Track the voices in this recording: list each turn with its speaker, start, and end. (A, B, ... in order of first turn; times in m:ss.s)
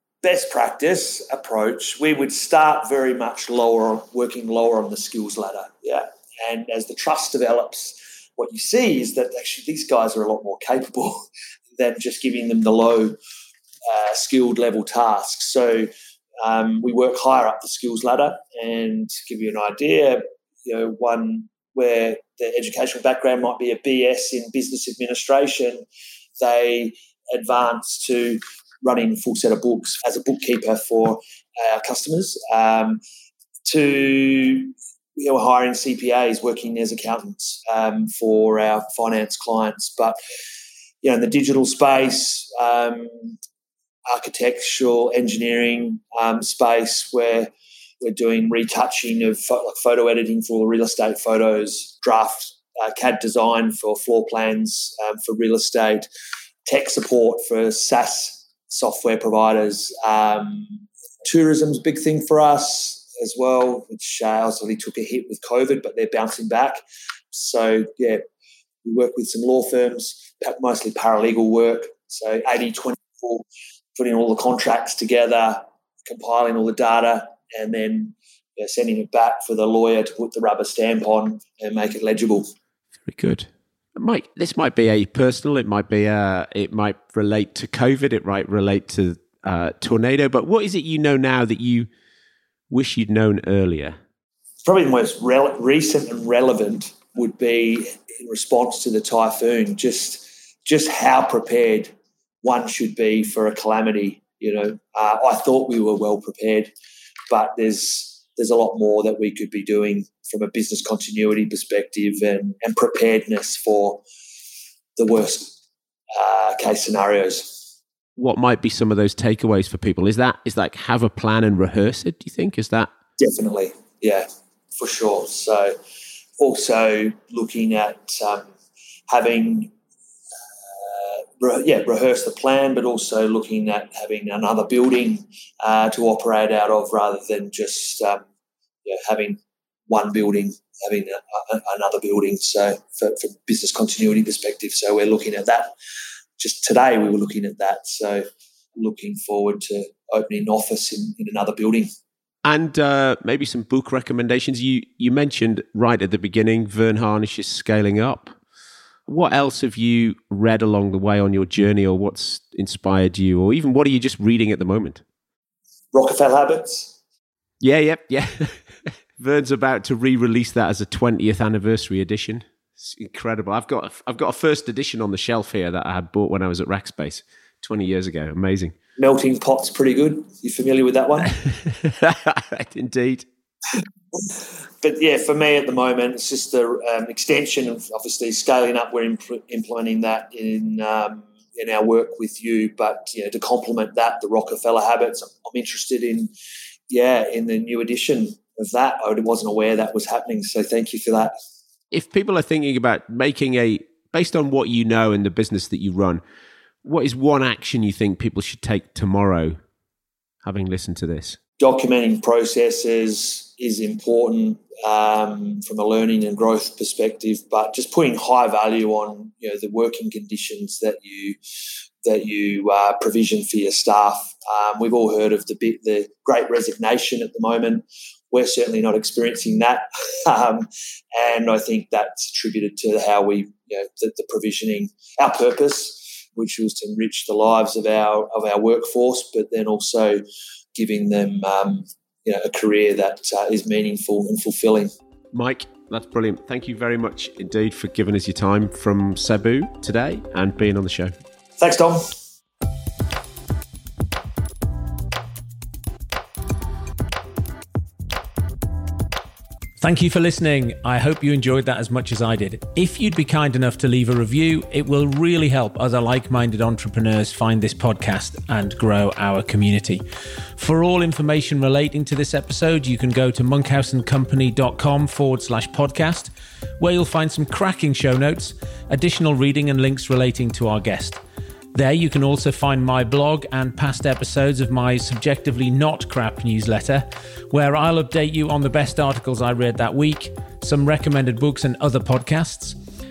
0:00.2-0:13.2 A
0:13.9-0:15.9 A
0:16.4-0:25.8 A
0:26.4-0:33.0 A
0:33.6-0:40.2 A
0:41.0-0:43.4 A
0:44.1-0:56.1 A
0:56.6-1:08.2 A
1:08.8-1:22.4 A
1:23.0-1:31.9 B
1:32.7-1:34.0 B
1:34.6-1:46.7 A
1:47.3-1:54.0 A
1:55.0-1:55.6 A
1:56.1-1:57.6 A
1:58.2-2:02.9 B
2:03.2-2:04.3 A
2:04.8-2:05.7 A
2:06.4-2:08.5 A
2:09.1-2:09.7 A
2:10.7-2:18.2 A
2:18.8-2:25.7 A
2:26.4-2:28.2 A
2:28.8-2:31.9 A
2:32.4-2:38.3 B
2:39.1-2:45.0 B
2:45.9-2:46.9 A
2:47.6-2:58.7 B
2:59.0-3:01.4 A
3:01.4-3:03.2 B
3:04.8-3:16.3 A
3:16.9-3:21.3 A
3:21.9-3:26.2 B
3:26.8-3:29.6 B
3:30.4-3:31.4 B
3:31.6-3:41.4 A
3:42.0-4:00.2 A
4:00.7-4:04.9 A
4:05.3-4:11.1 B
4:11.6-4:12.1 A
4:19.8-4:30.0 C
4:30.6-4:41.2 C
4:41.7-4:52.8 C